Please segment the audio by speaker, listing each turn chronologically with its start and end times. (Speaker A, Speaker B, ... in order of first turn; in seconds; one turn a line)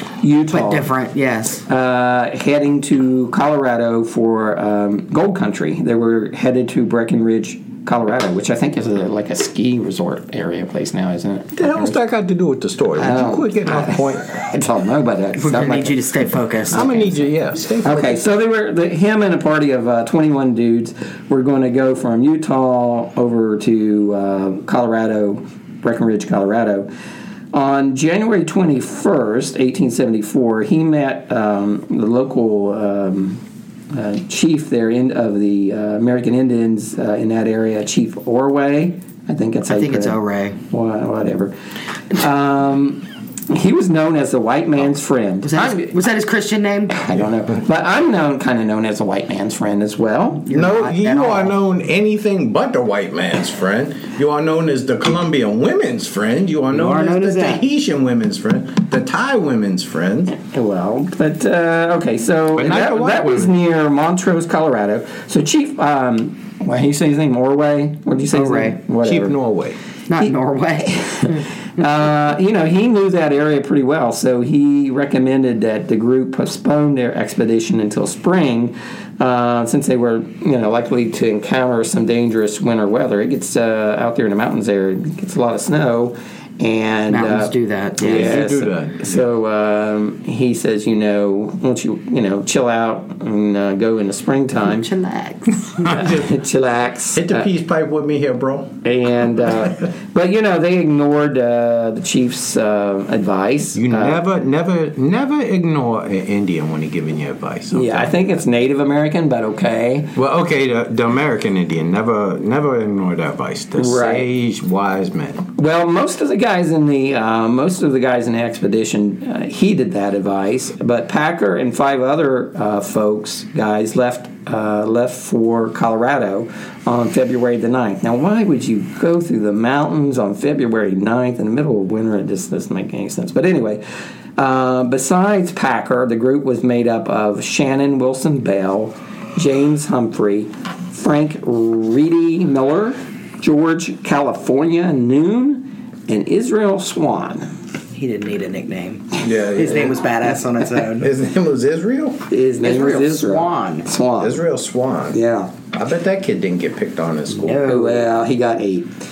Speaker A: 0.2-0.9
Speaker B: 0.5-1.6
Speaker A: 1.7-12.0
Speaker C: 11.6-14.4
Speaker A: 13.0-15.9
Speaker B: 15.4-16.9
Speaker C: 16.7-18.2
Speaker A: 16.7-17.3
Speaker A: 17.8-26.9
Speaker A: 27.5-33.4
Speaker A: 33.9-40.2
Speaker B: 39.7-40.6
Speaker A: 40.7-41.5
Speaker A: 42.1-45.9
Speaker B: 45.4-46.9
Speaker A: 46.9-50.5
Speaker B: 50.5-51.6
Speaker C: 50.5-60.3
Speaker B: 56.7-57.6
Speaker A: 60.4-69.4
Speaker C: 62.5-63.5
Speaker B: 68.3-68.8
Speaker C: 69.0-69.8
Speaker B: 70.1-71.4
Speaker A: 71.0-94.9
Speaker B: 87.1-88.4
Speaker C: 88.0-89.3
Speaker B: 94.6-96.0
Speaker C: 95.8-96.3
Speaker A: 95.9-97.5
Speaker C: 97.1-98.8
Speaker A: 98.8-104.2
Speaker C: 103.8-108.1
Speaker A: 107.7-110.1
Speaker C: 110.2-115.5
Speaker A: 113.8-114.2
Speaker A: 115.6-133.8
Speaker A: 134.4-147.5
Speaker B: 147.9-151.1
Speaker C: 149.2-150.0
Speaker C: 151.0-152.2
Speaker A: 152.3-154.4
Speaker B: 152.6-153.9
Speaker C: 154.2-155.2
Speaker A: 155.1-155.5
Speaker C: 155.7-157.7
Speaker B: 157.3-158.1
Speaker A: 157.7-158.9